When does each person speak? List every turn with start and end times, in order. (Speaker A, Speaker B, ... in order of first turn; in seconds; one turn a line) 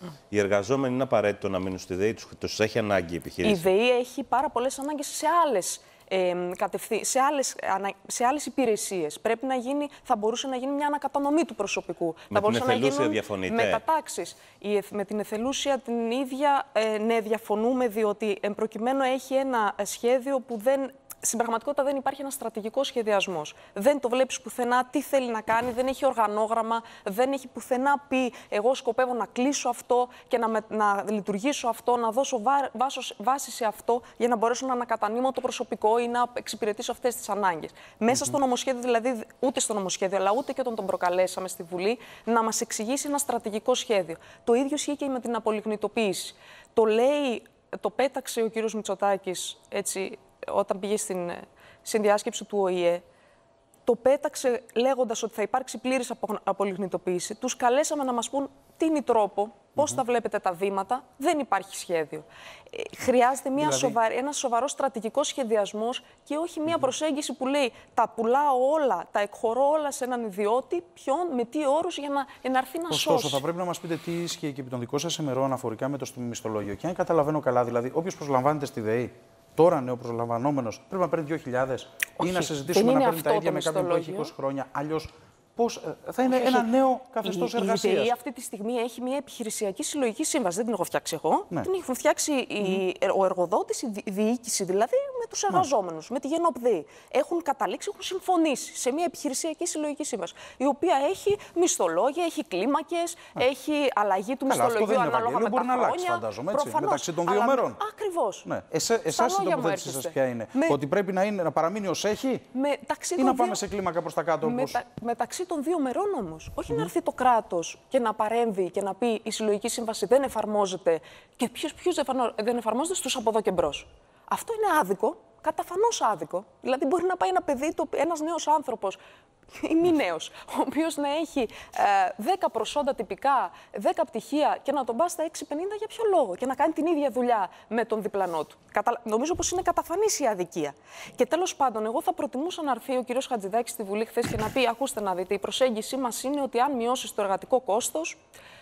Speaker A: 0.3-3.7
Speaker B: 3.4-53.0
Speaker A: 12.3-13.8
Speaker B: 53.9-73.4
Speaker C: 63.6-64.0
Speaker C: 72.9-88.1
Speaker B: 82.2-84.3
Speaker B: 86.3-86.7
Speaker B: 87.2-108.5
Speaker C: 104.5-107.8
Speaker C: 108.4-112.5
Speaker B: 109.1-110.8
Speaker B: 112.5-113.6
Speaker C: 113.2-114.8
Speaker B: 114.4-129.0
Speaker B: 129.5-148.2